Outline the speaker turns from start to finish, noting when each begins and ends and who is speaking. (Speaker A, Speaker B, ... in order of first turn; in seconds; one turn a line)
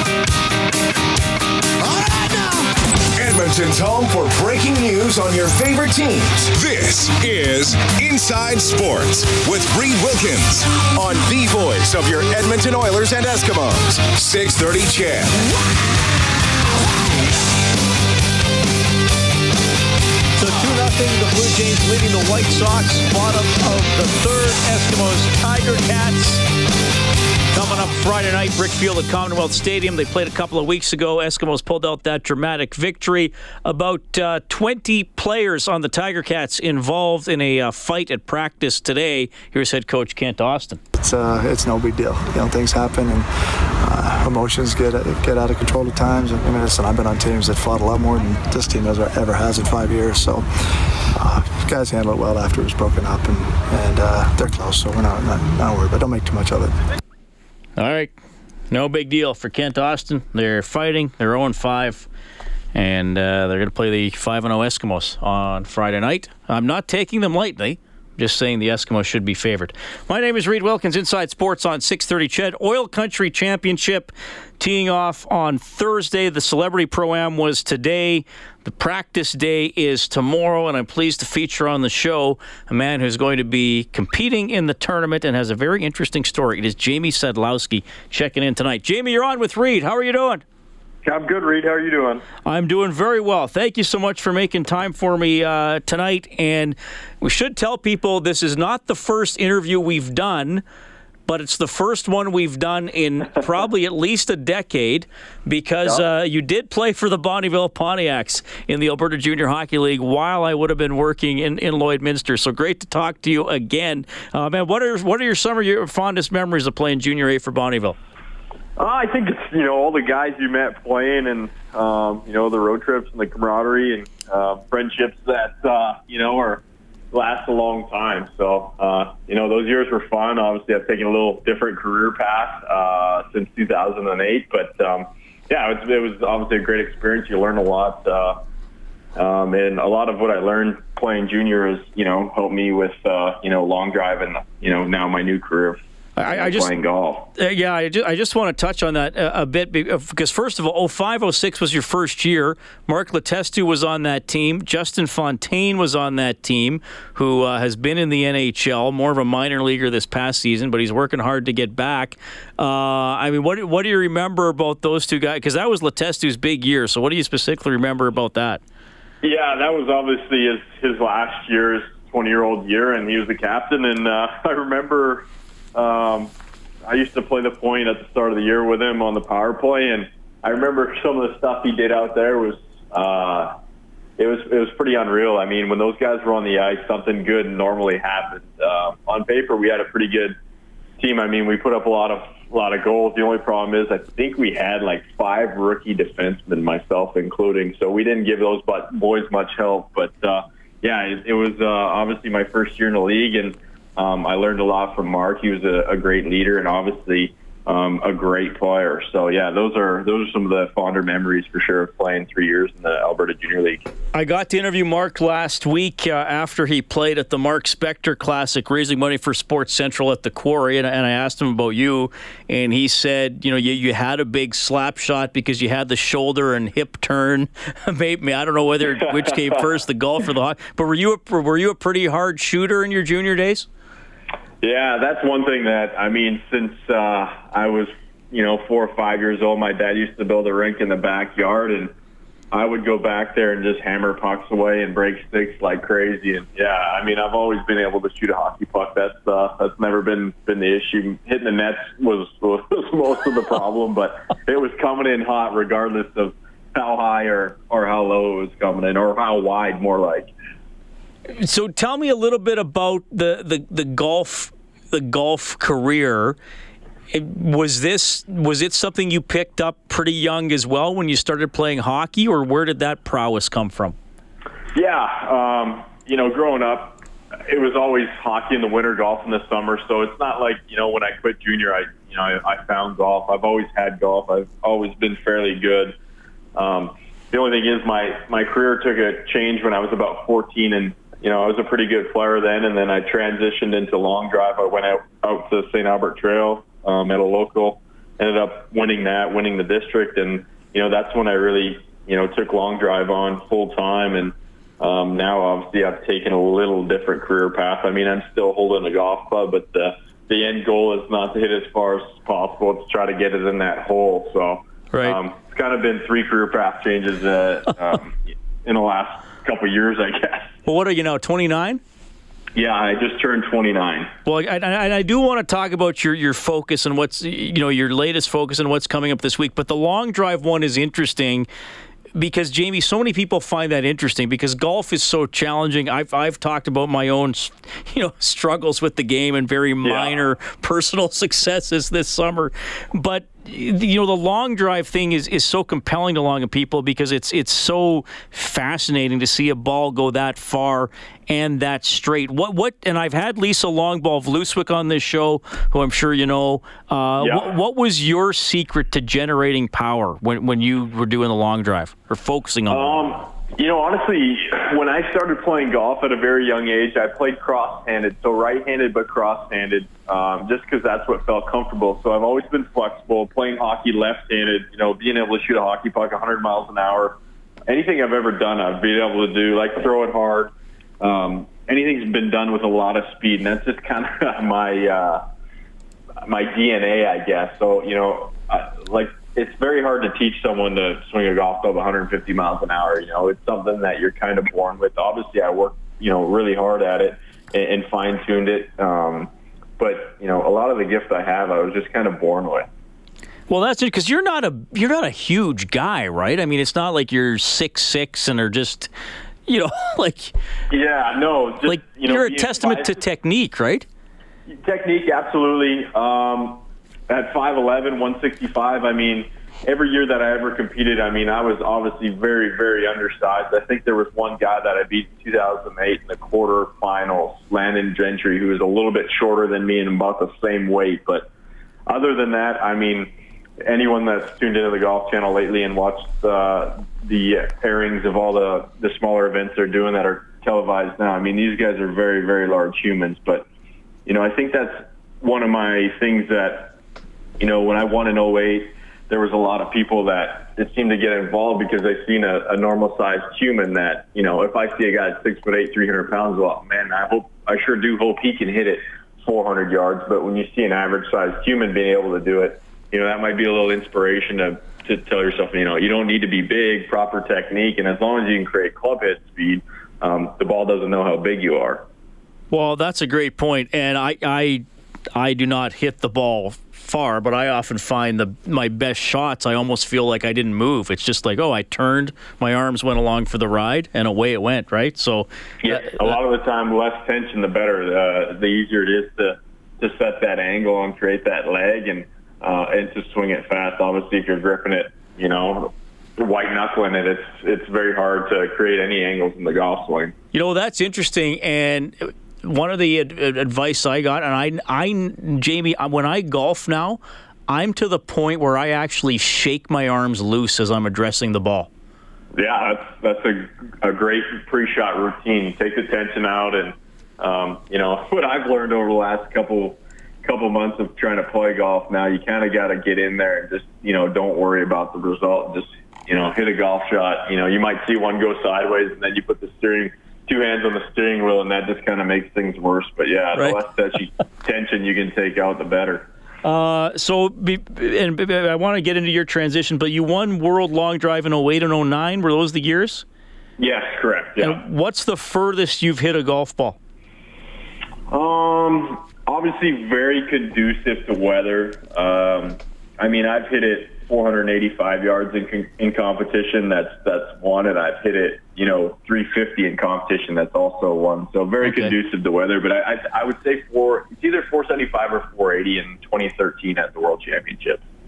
Speaker A: 1.8-15.5
Speaker B: 20.4-26.4
Speaker B: 27.5-40.8
Speaker C: 41.0-50.5
Speaker C: 51.1-56.8
Speaker B: 57.8-58.1
Speaker B: 58.7-62.1
Speaker B: 62.7-90.4
Speaker D: 91.0-92.2
Speaker B: 92.5-100.6
Speaker B: 101.3-118.0
Speaker D: 118.8-138.4
Speaker D: 139.2-147.3
Speaker B: 146.2-146.7
Speaker B: 147.4-168.6
Speaker D: 169.2-176.3
Speaker D: 176.9-183.6
Speaker D: 184.2-190.4
Speaker D: 191.0-213.9
Speaker B: 214.1-233.7
Speaker D: 234.6-241.9
Speaker D: 242.5-260.3
Speaker B: 261.4-266.4
Speaker B: 267.1-273.9
Speaker D: 274.8-286.0
Speaker D: 286.6-320.5
Speaker B: 314.9-315.2
Speaker B: 320.7-321.8
Speaker D: 322.6-324.1
Speaker B: 324.3-331.5
Speaker B: 332.1-363.0
Speaker D: 339.8-340.2
Speaker D: 357.2-357.5
Speaker D: 362.7-385.2
Speaker D: 386.2-402.7
Speaker B: 403.5-408.9
Speaker B: 409.5-410.3
Speaker D: 410.7-413.0
Speaker B: 411.7-413.9
Speaker D: 414.5-431.3
Speaker D: 431.9-443.5
Speaker D: 444.1-446.8
Speaker D: 447.4-471.9
Speaker B: 472.5-474.6
Speaker B: 475.1-486.2
Speaker D: 485.6-500.1
Speaker B: 500.3-511.7
Speaker D: 512.3-536.1
Speaker B: 536.4-543.0
Speaker D: 543.6-544.6
Speaker B: 544.4-546.8
Speaker D: 548.1-567.8
Speaker B: 561.6-561.9